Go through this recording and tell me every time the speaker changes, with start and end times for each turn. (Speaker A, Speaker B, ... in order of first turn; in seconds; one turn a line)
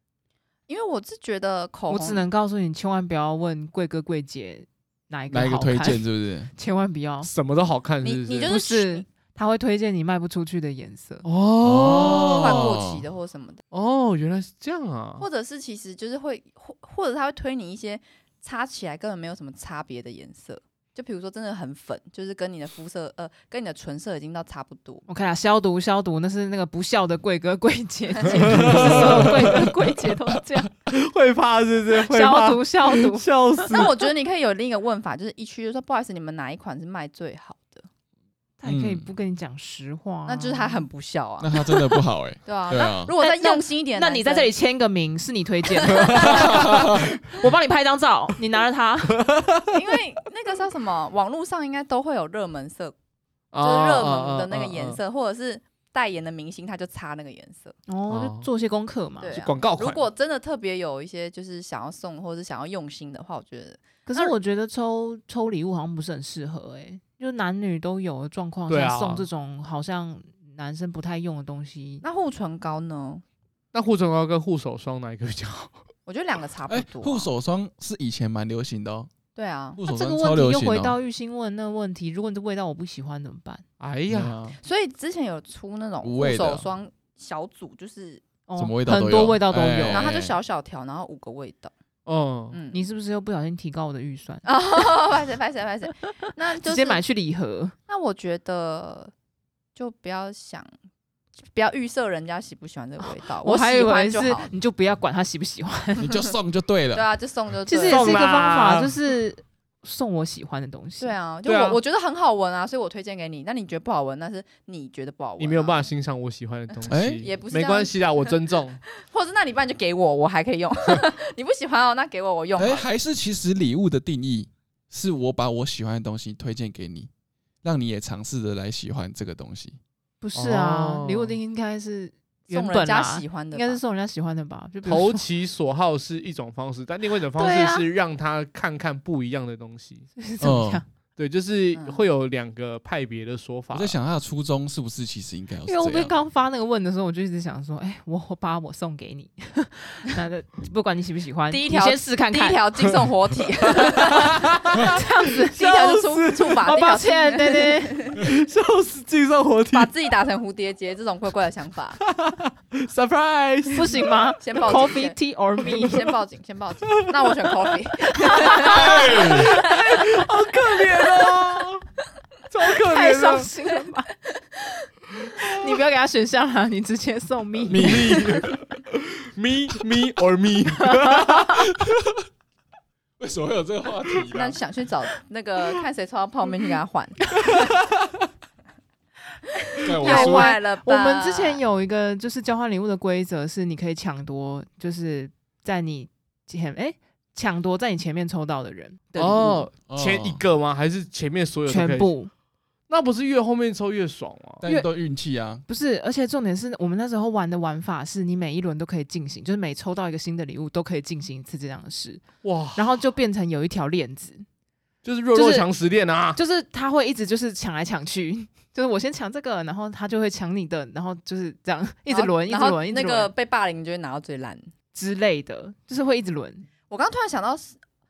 Speaker A: 0.7-2.2
Speaker B: 1.9-7.3
Speaker C: 5.3-6.5
Speaker D: 7.2-8.5
Speaker A: 8.0-9.0
Speaker B: 8.5-11.2
Speaker D: 11.2-12.7
Speaker C: 11.6-13.0
Speaker A: 12.1-13.6
Speaker D: 13.7-15.3
Speaker A: 15.2-25.0
Speaker B: 25.1-30.7
Speaker D: 28.2-29.7
Speaker C: 28.5-29.6
Speaker D: 30.9-34.0
Speaker B: 32.0-33.7
Speaker A: 33.7-37.9
Speaker B: 38.6-40.8
Speaker C: 38.6-39.1
Speaker A: 40.2-41.6
Speaker C: 41.4-43.1
Speaker A: 42.4-44.5
Speaker B: 43.2-49.2
Speaker D: 45.9-46.3
Speaker C: 46.2-47.1
Speaker D: 49.2-49.8
Speaker A: 49.7-52.9
Speaker D: 53.5-55.0
Speaker A: 53.6-57.8
Speaker B: 57.9-59.3
Speaker D: 58.1-58.5
Speaker A: 59.2-64.3
Speaker D: 59.3-60.0
Speaker B: 64.1-72.0
Speaker D: 68.7-69.2
Speaker A: 72.0-73.2
Speaker D: 73.7-75.8
Speaker A: 76.0-77.3
Speaker C: 76.7-79.1
Speaker A: 79.3-79.8
Speaker C: 79.8-81.0
Speaker B: 79.8-83.6
Speaker D: 83.8-84.4
Speaker C: 84.1-84.5
Speaker A: 84.6-88.2
Speaker C: 86.0-86.7
Speaker B: 88.5-90.1
Speaker C: 88.6-90.3
Speaker A: 89.9-91.7
Speaker D: 92.0-92.6
Speaker A: 92.5-92.8
Speaker B: 92.7-94.5
Speaker A: 94.4-97.0
Speaker B: 96.1-97.7
Speaker A: 97.9-99.1
Speaker A: 99.7-100.7
Speaker A: 101.5-104.5
Speaker B: 103.2-106.2
Speaker C: 106.0-107.1
Speaker A: 106.9-108.3
Speaker B: 107.7-111.1
Speaker D: 107.9-109.0
Speaker A: 111.0-115.9
Speaker D: 111.5-111.8
Speaker D: 115.4-118.8
Speaker C: 116.9-117.2
Speaker A: 117.2-118.3
Speaker A: 119.0-122.9
Speaker C: 122.6-127.1
Speaker C: 127.6-129.8
Speaker B: 130.2-135.2
Speaker D: 130.3-131.3
Speaker A: 132.5-133.8
Speaker D: 134.8-140.1
Speaker B: 137.3-137.8
Speaker B: 140.2-140.8
Speaker C: 140.4-140.8
Speaker D: 141.2-143.9
Speaker A: 141.7-142.0
Speaker C: 143.7-146.1
Speaker B: 145.7-152.6
Speaker A: 151.5-154.4
Speaker D: 153.7-156.6
Speaker B: 154.7-155.6
Speaker A: 155.5-158.2
Speaker B: 156.6-158.1
Speaker D: 158.2-159.9
Speaker A: 159.7-162.0
Speaker D: 162.1-164.0
Speaker B: 163.7-166.1
Speaker A: 164.4-170.1
Speaker D: 168.1-171.8
Speaker C: 168.6-169.6
Speaker D: 172.5-173.5
Speaker B: 172.8-174.1
Speaker D: 175.4-175.7
Speaker B: 175.4-178.4
Speaker C: 177.7-178.4
Speaker D: 177.8-181.7
Speaker C: 181.6-182.2
Speaker C: 183.2-184.6
Speaker A: 184.3-187.6
Speaker D: 187.5-187.8
Speaker A: 189.8-191.6
Speaker C: 189.8-190.5
Speaker B: 190.0-199.7
Speaker D: 199.2-202.1
Speaker C: 199.9-200.4
Speaker B: 201.7-202.3
Speaker D: 202.9-204.6
Speaker C: 204.6-205.6
Speaker B: 205.7-214.4
Speaker D: 212.4-212.9
Speaker D: 215.0-216.4
Speaker B: 215.3-215.7
Speaker B: 216.3-223.3
Speaker A: 222.1-224.7
Speaker B: 224.9-226.7
Speaker A: 226.9-227.8